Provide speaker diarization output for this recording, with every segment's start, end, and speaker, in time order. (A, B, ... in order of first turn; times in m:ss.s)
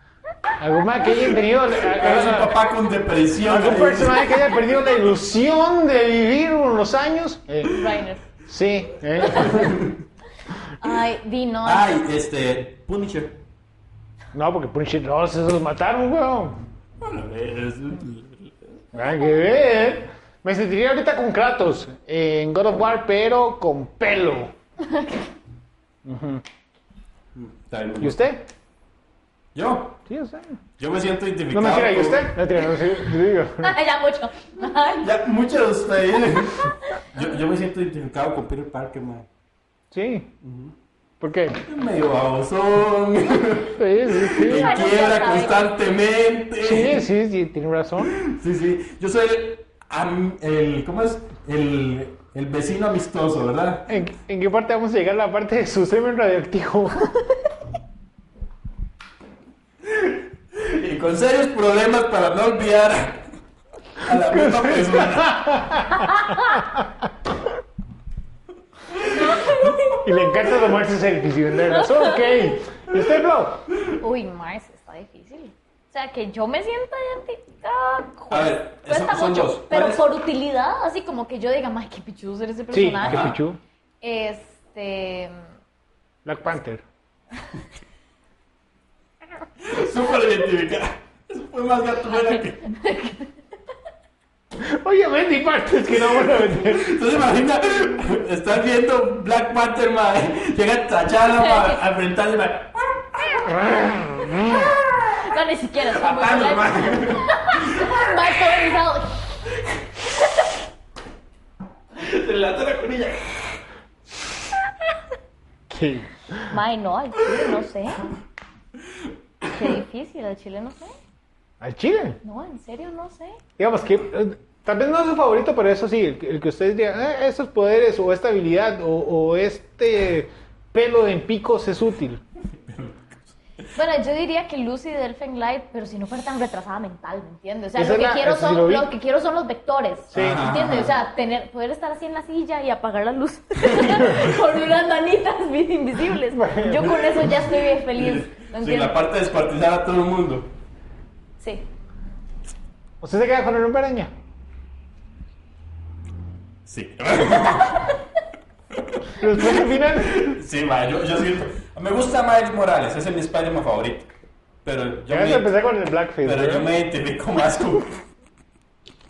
0:00.6-0:02.6 A
0:01.8-0:04.4 B
0:03.4-0:07.7 A
0:07.6-0:08.2 C
0:08.4-0:09.8 A
0:09.2-0:09.6 C
0:09.3-0:09.9 B
0:10.8-0:12.0 C
0:11.6-0:13.4 B
0:14.3-0:16.6 A
0:17.0-0:18.8 B
0:18.9-0:24.5 A
0:24.8-0:25.3 C
0:26.0-0:26.4 A
0:27.3-0:28.2 B
0:28.0-0:28.4 A
0:29.5-0:30.0 B
0:30.0-0:30.6 A
0:30.8-0:32.3 B
0:31.5-0:33.7 A
0:33.6-0:35.0 C
0:35.0-0:39.2 B
0:36.5-0:37.0 C
0:39.9-0:40.3 A
0:40.4-0:40.7 B
0:41.2-0:41.6 A
0:41.6-0:47.0 B
0:43.7-0:44.9 A
0:44.4-0:45.6 C
0:46.6-0:48.1 A
0:48.0-0:53.9 B
0:53.9-0:57.1 A
0:59.8-1:03.3 B
1:04.0-1:05.6 B
1:04.2-1:06.9 A
1:05.9-1:06.6 C
1:08.9-1:10.6 C
1:10.0-1:13.6 A
1:11.6-1:12.6 C
1:14.0-1:23.3 C
1:18.3-1:20.0 B
1:22.7-1:23.6 A
1:23.0-1:23.3 B
1:24.0-1:25.4 C
1:26.2-1:26.8 A
1:29.6-1:32.6 B
1:32.1-1:33.3 C
1:34.6-1:36.9 A
1:36.2-1:43.7 B
1:41.4-1:41.8 C
1:43.5-1:44.7 A
1:44.4-1:45.1 B
1:45.1-1:49.4 C
1:45.8-1:48.1 B
1:51.9-1:53.6 B
1:55.7-1:56.5 A
1:56.5-1:58.1 C
1:59.4-2:01.0 C
2:01.6-2:02.2 A
2:02.2-2:03.4 C
2:03.6-2:12.2 A
2:12.5-2:13.3 B
2:13.7-2:29.0 C
2:17.8-2:18.9 A
2:20.1-2:20.5 A
2:20.1-2:20.9 B
2:26.3-2:27.4 A
2:27.9-2:30.5 B
2:31.4-2:31.6 C
2:33.0-2:34.1 A
2:36.6-2:38.0 B
2:38.8-2:44.1 B
2:39.2-2:40.4 A
2:44.6-2:45.6 B
2:45.1-2:46.7 A
2:46.2-2:48.0 B